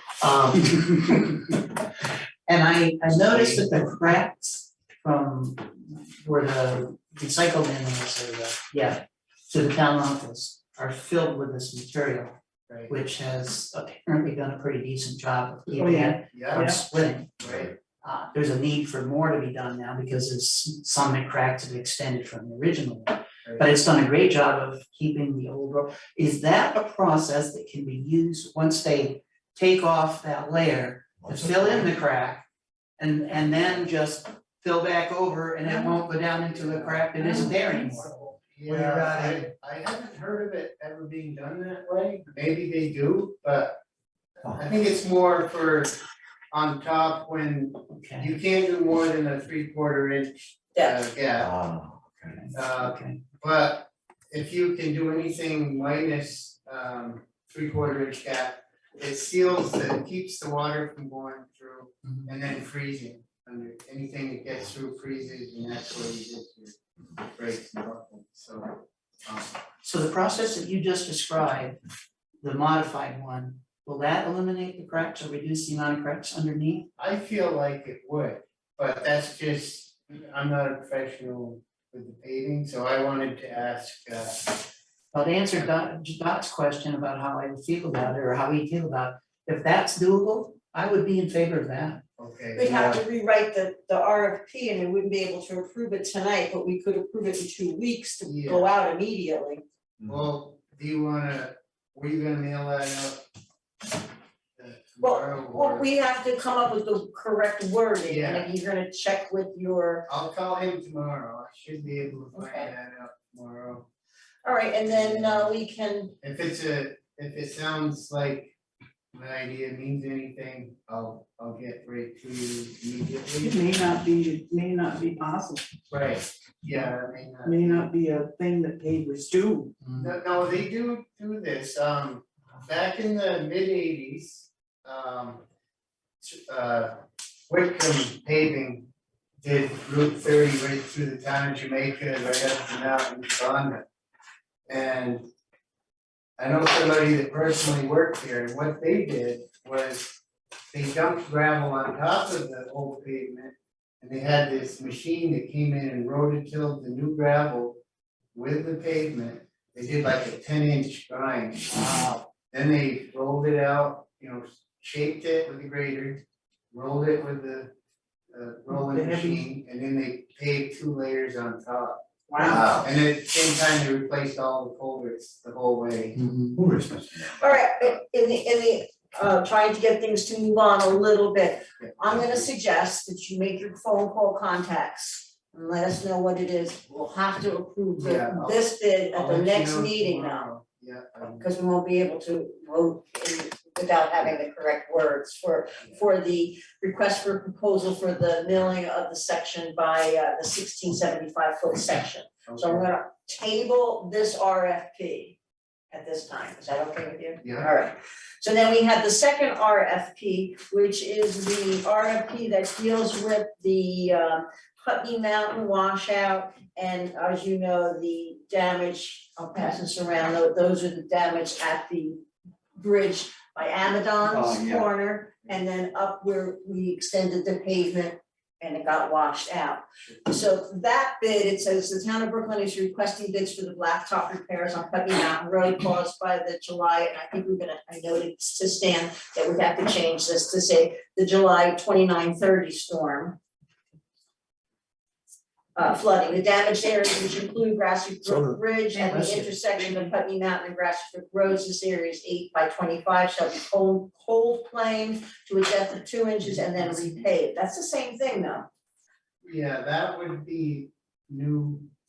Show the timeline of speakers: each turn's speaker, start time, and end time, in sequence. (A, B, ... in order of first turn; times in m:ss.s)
0:00.2-0:00.7 A
0:00.5-0:01.6 B
0:02.5-0:12.3 B
0:03.2-0:03.7 A
0:12.9-0:32.4 B
0:15.8-0:16.8 C
0:16.3-0:16.7 A
0:17.4-0:17.7 A
0:23.4-0:23.7 A
0:31.3-0:31.8 D
0:33.0-0:39.5 B
0:35.6-0:36.0 C
0:36.5-0:37.1 A
0:37.2-0:38.1 C
0:38.2-0:43.8 A
0:44.4-0:46.0 A
0:46.5-0:51.5 A
0:48.0-0:48.3 B
0:51.4-0:52.4 D
0:52.3-0:53.2 B
0:52.5-1:09.5 A
1:09.8-1:11.8 B
1:12.4-1:16.9 B
1:17.0-1:24.6 A
1:25.1-1:32.0 B
1:32.2-1:33.0 A
1:32.5-1:39.6 E
1:38.2-1:38.7 A
1:40.0-1:43.2 A
1:44.6-1:45.9 A
1:45.0-1:50.0 E
1:48.0-1:48.5 A
1:50.1-1:53.9 A
1:52.3-1:52.7 E
1:54.4-1:56.1 E
1:54.9-1:55.5 A
1:56.2-1:58.5 A
1:59.1-2:03.6 A
2:03.4-2:05.6 C
2:05.9-2:07.9 A
2:07.4-2:09.8 C
2:09.8-2:10.1 B
2:10.0-2:15.4 A
2:16.2-2:18.9 A
2:19.4-2:23.8 A
2:24.7-2:25.2 A
2:26.4-2:30.2 A
2:30.7-2:37.8 A
2:38.3-2:47.7 A
2:41.9-2:42.1 C
2:48.3-2:56.3 A
2:48.7-2:49.4 C
2:52.3-2:52.7 C
2:56.6-2:57.0 D
2:57.3-3:10.5 E
3:01.8-3:02.5 A
3:08.0-3:11.5 A
3:11.3-3:25.4 E
3:22.5-3:22.9 A
3:25.9-3:42.2 E
3:27.4-3:27.7 A
3:42.8-4:03.4 E
3:44.4-3:44.8 D
4:05.8-4:18.7 E
4:08.9-4:10.1 B
4:16.5-4:17.3 B
4:19.4-4:21.9 A